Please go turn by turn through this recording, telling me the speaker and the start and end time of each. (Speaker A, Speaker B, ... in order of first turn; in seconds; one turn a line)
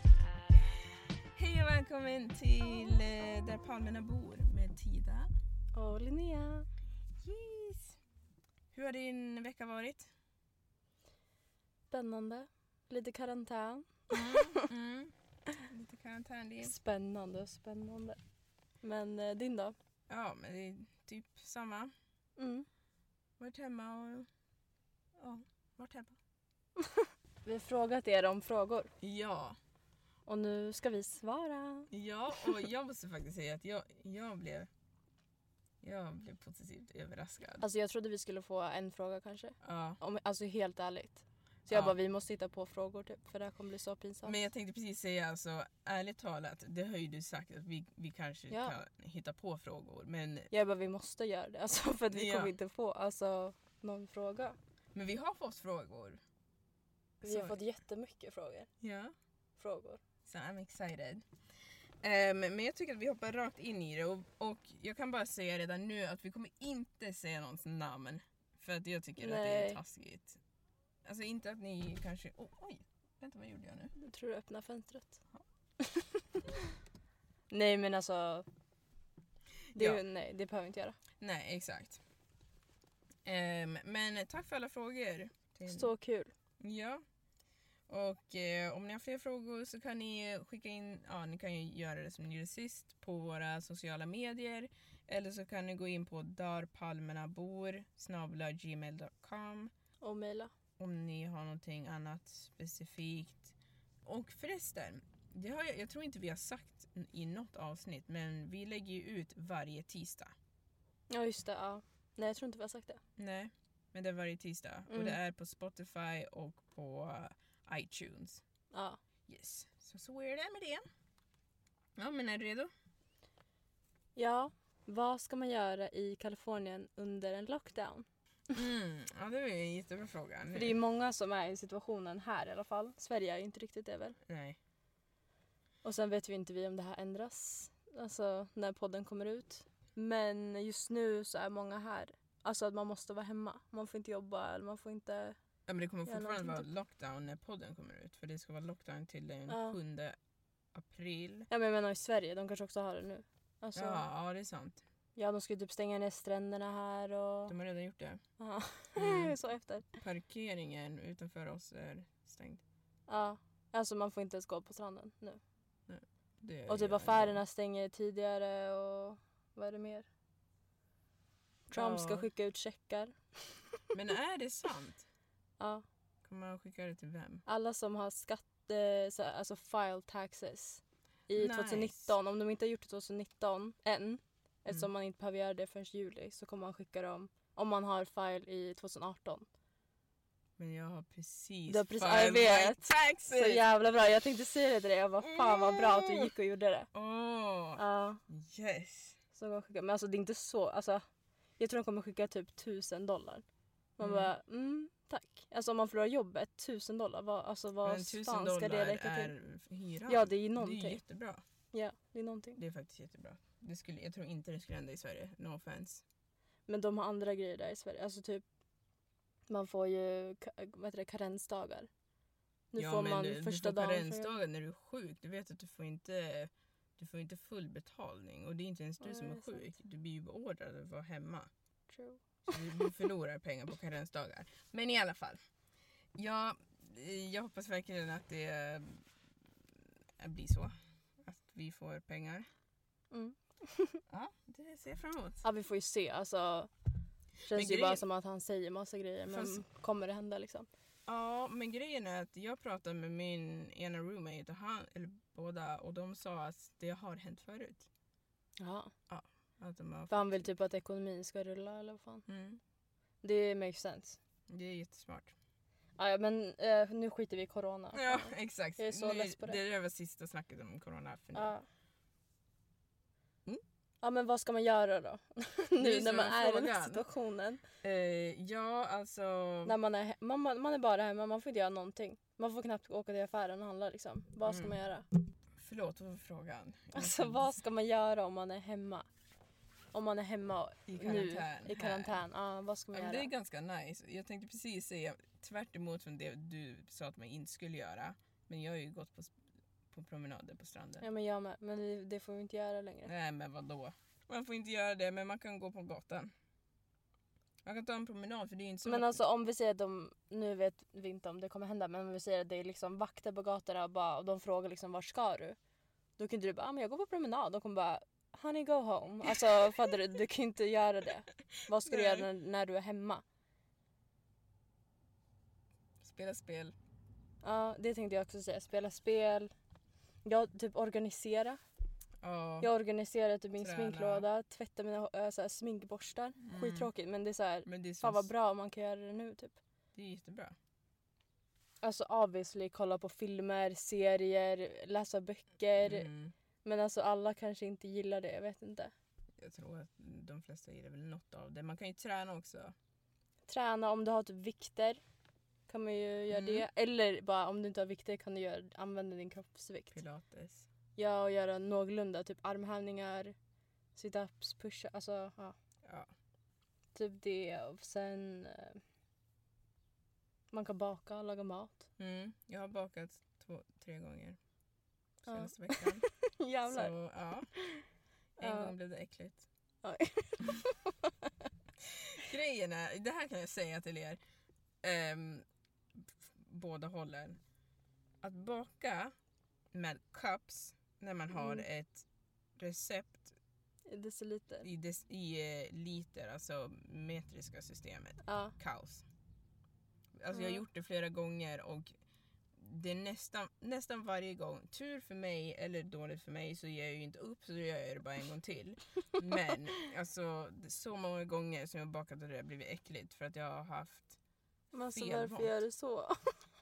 Speaker A: 1.3-5.3
Speaker B: 5.7-6.7
Speaker A: 7.2-8.0
Speaker A: 8.7-10.1
Speaker B: 11.9-14.7
Speaker A: 14.1-16.7
Speaker B: 16.6-18.2
Speaker B: 18.8-19.7
Speaker A: 20.1-21.9
Speaker B: 22.4-22.6
Speaker A: 23.4-24.3
Speaker A: 25.2-26.2
Speaker B: 26.8-28.9
Speaker A: 29.0-29.6
Speaker B: 30.3-32.6
Speaker A: 31.9-34.7
Speaker A: 35.8-37.6
Speaker B: 37.6-44.4
Speaker A: 39.6-40.0
Speaker A: 41.7-41.9
Speaker A: 44.2-50.5
Speaker B: 50.5-54.5
Speaker A: 52.1-52.5
Speaker A: 54.9-56.2
Speaker A: 57.2-57.6
Speaker B: 57.2-58.7
Speaker A: 58.8-59.1
Speaker B: 59.6-60.0
Speaker A: 60.2-61.2
Speaker A: 62.0-70.4
Speaker B: 69.2-69.8
Speaker A: 71.0-73.9
Speaker B: 74.0-75.2
Speaker B: 75.8-76.6
Speaker B: 77.5-78.4
Speaker A: 79.7-80.0
Speaker B: 79.7-81.0
Speaker A: 81.2-82.0
Speaker A: 83.2-85.9
Speaker B: 85.7-86.3
Speaker A: 86.6-87.0
Speaker A: 87.9-99.7
Speaker B: 100.0-100.5
Speaker A: 100.8-110.3
Speaker B: 111.1-113.0
Speaker A: 113.2-118.4
Speaker B: 114.9-115.2
Speaker B: 118.7-119.0
Speaker A: 119.3-120.8
Speaker A: 122.0-122.7
Speaker B: 124.2-128.1
Speaker A: 128.5-130.8
Speaker B: 130.5-134.2
Speaker A: 134.3-134.6
Speaker B: 135.8-145.4
Speaker A: 145.7-150.2
Speaker B: 146.0-146.6
Speaker B: 149.5-149.8
Speaker A: 150.7-151.5
Speaker B: 151.5-154.0
Speaker A: 153.7-154.8
Speaker B: 155.2-157.5
Speaker A: 157.5-158.2
Speaker B: 158.4-159.9
Speaker A: 158.9-159.3
Speaker A: 160.0-162.6
Speaker B: 163.1-165.4
Speaker A: 165.9-167.4
Speaker B: 166.7-170.1
Speaker B: 171.7-173.1
Speaker A: 171.7-172.3
Speaker A: 173.9-175.1
Speaker A: 176.2-177.4
Speaker B: 177.4-189.4
Speaker A: 181.3-182.1
Speaker A: 190.6-193.6
Speaker B: 191.7-196.9
Speaker A: 195.2-196.3
Speaker A: 196.9-199.2
Speaker B: 197.8-198.2
Speaker B: 199.3-201.0
Speaker B: 201.6-203.4
Speaker B: 204.0-209.3
Speaker A: 204.0-204.3
Speaker A: 207.8-211.4
Speaker B: 210.1-211.0
Speaker B: 211.7-212.6
Speaker A: 212.6-216.0
Speaker B: 216.7-218.4
Speaker B: 219.5-221.9
Speaker B: 222.7-224.3
Speaker A: 222.8-231.5
Speaker B: 229.0-229.7
Speaker B: 231.9-232.9
Speaker A: 232.5-235.4
Speaker A: 236.2-239.0
Speaker A: 240.2-242.5
Speaker B: 243.1-244.0
Speaker A: 244.1-245.4
Speaker B: 245.4-246.7
Speaker A: 247.5-248.0
Speaker B: 247.5-250.7
Speaker A: 249.3-249.6
Speaker A: 251.1-257.9
Speaker B: 258.6-258.9
Speaker A: 259.1-260.5
Speaker B: 260.1-262.2
Speaker A: 262.3-262.6
Speaker B: 263.2-264.2
Speaker A: 264.5-265.3
Speaker B: 266.0-269.6
Speaker A: 267.9-271.5
Speaker B: 271.3-271.6
Speaker B: 274.0-277.6
Speaker A: 275.8-277.0
Speaker A: 277.8-279.7
Speaker B: 279.6-285.1
Speaker A: 284.4-284.8
Speaker A: 285.5-287.4
Speaker B: 286.9-289.1
Speaker B: 289.9-293.3
Speaker A: 290.9-292.2
Speaker A: 292.9-299.3
Speaker A: 299.9-301.0
Speaker B: 301.0-303.1
Speaker A: 303.1-306.3
Speaker A: 307.6-309.2
Speaker B: 308.8-315.6
Speaker B: 316.2-323.2
Speaker A: 321.8-322.3
Speaker A: 326.0-326.7
Speaker B: 327.4-329.5
Speaker B: 330.2-331.6
Speaker A: 332.2-332.7
Speaker B: 332.6-339.6
Speaker A: 333.6-334.2
Speaker A: 336.4-336.9
Speaker A: 337.6-338.3
Speaker A: 339.9-340.5
Speaker B: 341.8-346.1
Speaker A: 345.8-346.3
Speaker B: 346.6-348.9
Speaker A: 349.4-352.7
Speaker B: 353.5-355.0
Speaker B: 355.7-360.0
Speaker A: 356.3-356.6
Speaker A: 359.9-360.7
Speaker B: 360.9-363.3
Speaker B: 363.9-365.5
Speaker A: 365.8-366.1
Speaker B: 366.9-368.8
Speaker B: 370.5-371.9
Speaker A: 372.0-374.4
Speaker A: 375.2-376.1
Speaker B: 375.3-376.9
Speaker A: 376.7-377.5
Speaker B: 377.5-377.8
Speaker A: 378.4-379.4
Speaker B: 378.4-378.7
Speaker B: 379.8-381.3
Speaker A: 381.8-384.2
Speaker A: 384.8-385.4
Speaker A: 386.0-387.4
Speaker A: 388.2-389.1
Speaker A: 389.7-392.0
Speaker B: 391.3-391.6
Speaker A: 392.6-393.3
Speaker B: 393.9-394.7
Speaker A: 394.6-399.0
Speaker B: 398.2-398.5
Speaker A: 400.2-401.9
Speaker B: 400.3-400.6
Speaker A: 402.5-414.2
Speaker B: 414.7-416.1
Speaker A: 414.9-415.6